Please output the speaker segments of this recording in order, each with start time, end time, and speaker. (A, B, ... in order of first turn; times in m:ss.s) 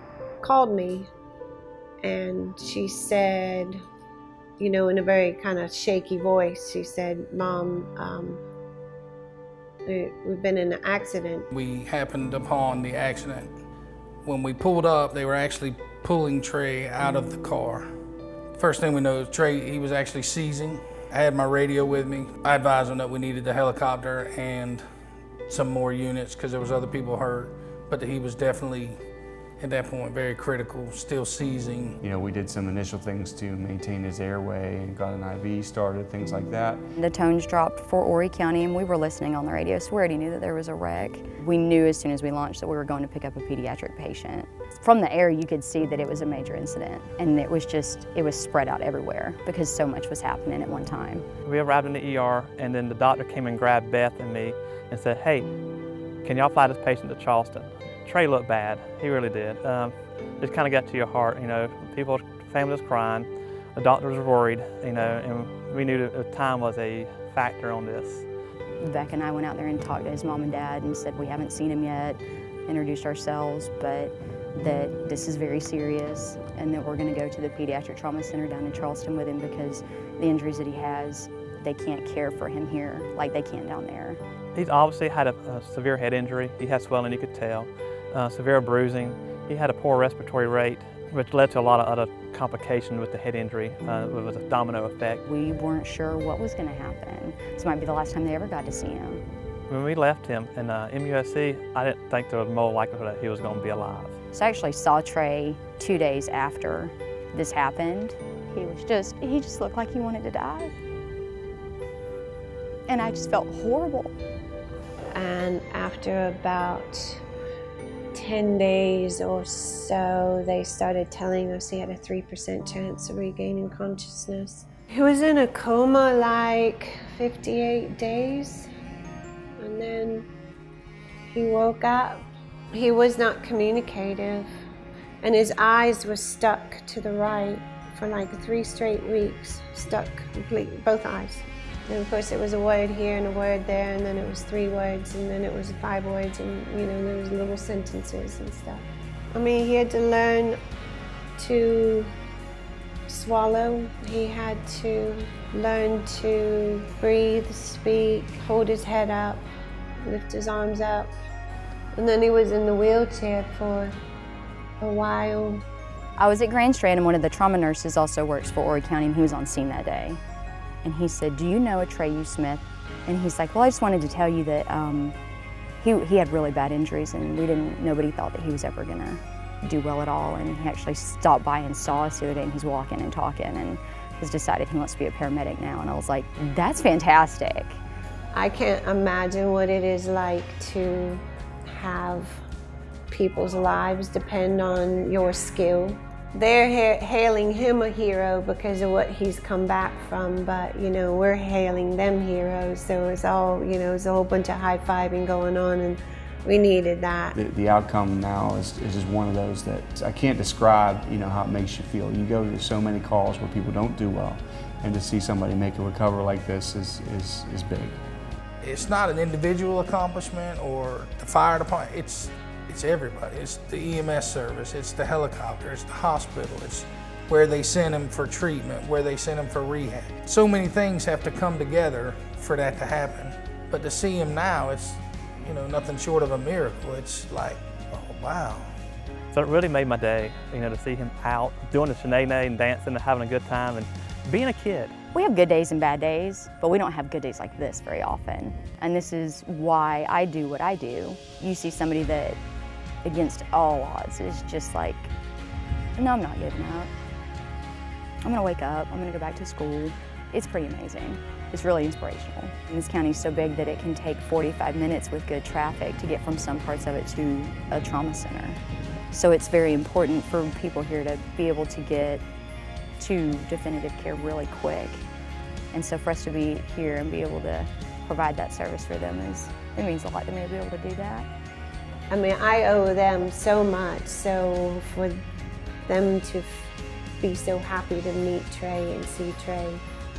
0:00.4-0:01.1 A
0:02.0-0:03.8 A
0:04.6-0:08.4 A
0:09.9-0:11.5 A
0:11.5-0:13.5 B
0:14.2-0:17.9 B
0:18.6-0:24.8 B
0:25.5-0:29.0 B
0:29.6-0:32.0 B
0:32.0-0:36.8 C
0:37.0-0:51.3 D
0:51.4-0:55.5 E
0:56.2-1:08.3 E
1:08.8-1:24.2 D
1:24.5-1:35.2 E
1:35.3-1:39.2 D
1:39.7-1:44.2 E
1:44.3-1:50.7 D
1:52.9-1:54.1 D
1:55.1-1:57.2 A
1:58.1-2:08.7 A
2:09.6-2:10.3 A
2:11.3-2:14.5 A
2:15.2-2:30.6 A
2:31.4-2:32.1 A
2:33.1-2:39.5 A
2:40.0-2:41.2 A
2:42.0-2:44.0 A
2:44.8-2:45.6 A
2:46.2-2:50.2 D
2:50.8-2:55.2 D
2:55.8-3:07.8 D
3:08.3-3:12.4 A
3:13.1-3:27.4 A
3:27.4-3:38.0 C
3:38.6-3:58.7 B
3:59.3-4:05.0 E
4:05.1-4:12.4 D
4:13.0-4:15.1 D
4:16.0-4:16.9 D
4:18.2-4:28.6 D
4:29.1-4:32.2 D
4:33.0-4:35.0 D
4:35.7-4:41.3 D
4:42.1-4:45.2 A
4:45.9-4:46.7 A
4:47.2-4:49.8 A